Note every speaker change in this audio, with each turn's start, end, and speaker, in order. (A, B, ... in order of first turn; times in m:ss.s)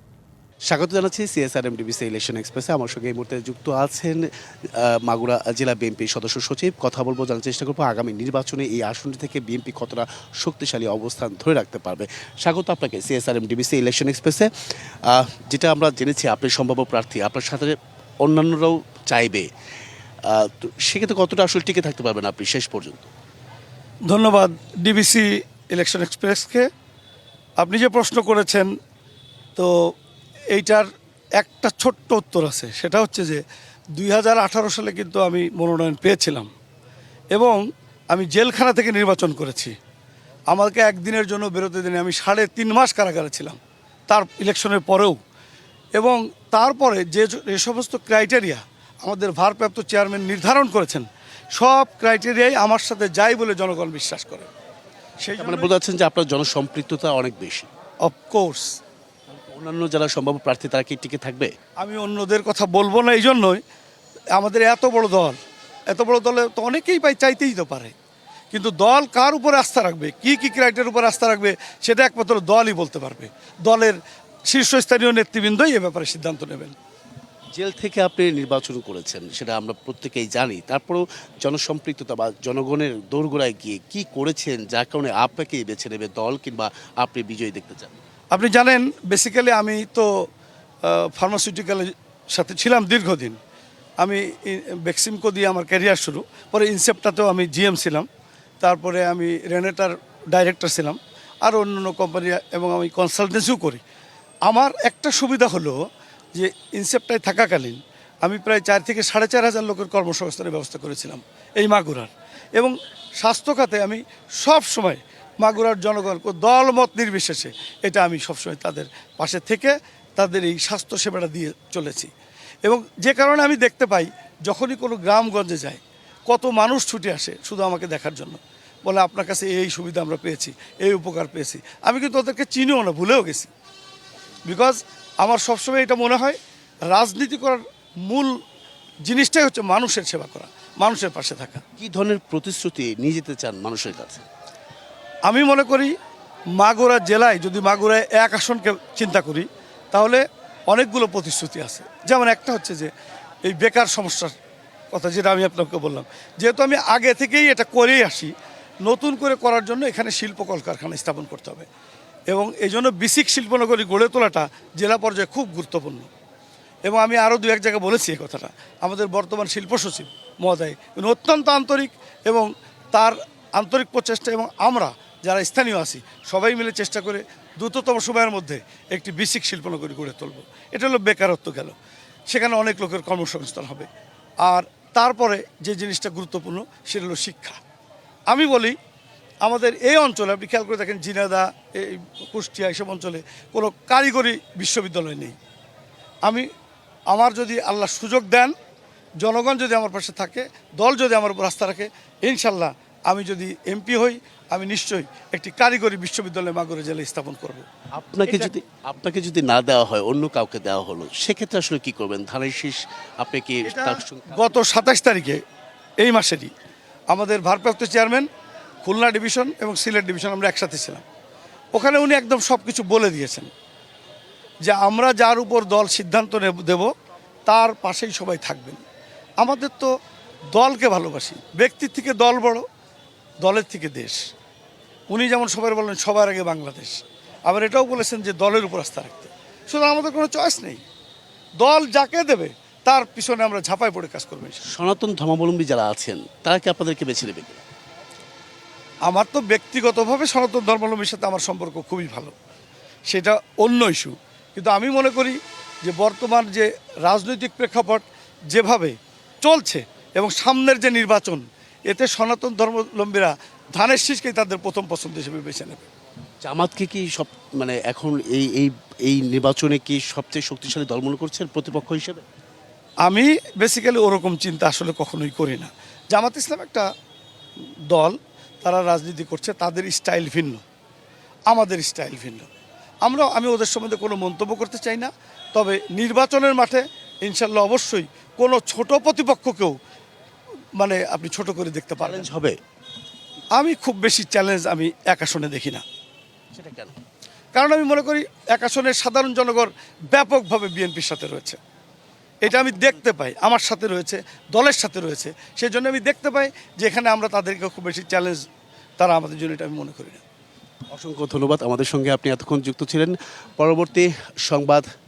0:00.7-0:04.2 A
0:04.8-0:14.5 A
0:15.0-0:19.5 A
0:20.3-0:23.1 A
0:24.1-0:26.6 B
0:27.6-0:28.7 B
0:30.5-0:30.8 B
0:31.4-0:33.4 B
0:34.0-0:36.5 B
0:37.3-0:37.6 B
0:38.1-0:39.7 B
0:40.5-0:43.6 B
0:44.1-0:45.2 B
0:45.9-0:54.5 B
0:55.2-0:55.7 B
0:55.4-0:57.7 A
0:58.0-0:58.7 B
0:59.3-1:01.5 A
1:01.8-1:03.6 B
1:04.4-1:05.4 B
1:05.9-1:07.9 B
1:08.5-1:14.0 B
1:14.5-1:16.7 B
1:17.5-1:28.0 A
1:28.3-1:30.1 B
1:30.8-1:33.4 B
1:34.0-1:38.0 B
1:38.6-1:43.8 B
1:44.5-1:45.8 B
1:46.3-2:02.1 B
2:02.6-2:13.5 B
2:14.4-2:16.4 B
2:16.9-2:18.3 B
2:19.1-2:21.6 B
2:21.8-2:24.2 A
2:25.3-2:25.9 B
2:26.6-2:32.9 B
2:33.4-2:34.3 B
2:34.9-2:38.3 B
2:38.8-2:41.7 B
2:42.3-2:46.1 B
2:46.8-3:01.7 B
3:02.3-3:03.9 B
3:04.4-3:07.6 B
3:08.3-3:08.7 B
3:09.4-3:15.4 B
3:17.1-3:18.5 B
3:19.2-3:27.6 B
3:28.0-3:34.5 A
3:28.2-3:28.5 B
3:33.6-3:35.4 B
3:36.0-3:36.5 B
3:37.1-3:38.2 B
3:38.8-3:41.0 B
3:41.7-3:43.5 B
3:44.6-3:46.9 B
3:47.4-3:48.8 B
3:49.4-3:49.9 B
3:50.5-3:52.6 B
3:53.4-3:54.2 B
3:55.1-4:00.8 B
4:01.6-4:04.6 B
4:04.6-4:07.6 A
4:09.1-4:12.3 B
4:13.1-4:25.8 B
4:26.4-4:32.2 A
4:33.0-4:36.8 B
4:37.9-4:40.6 B
4:41.5-4:42.5 B
4:43.0-4:49.8 B
4:50.8-4:52.3 B
4:52.0-4:52.6 A
4:53.6-4:55.8 B
4:56.5-4:57.0 A
4:57.5-5:01.6 B
5:02.4-5:08.4 B
5:02.5-5:02.8 A
5:09.0-5:10.2 B
5:10.9-5:14.8 A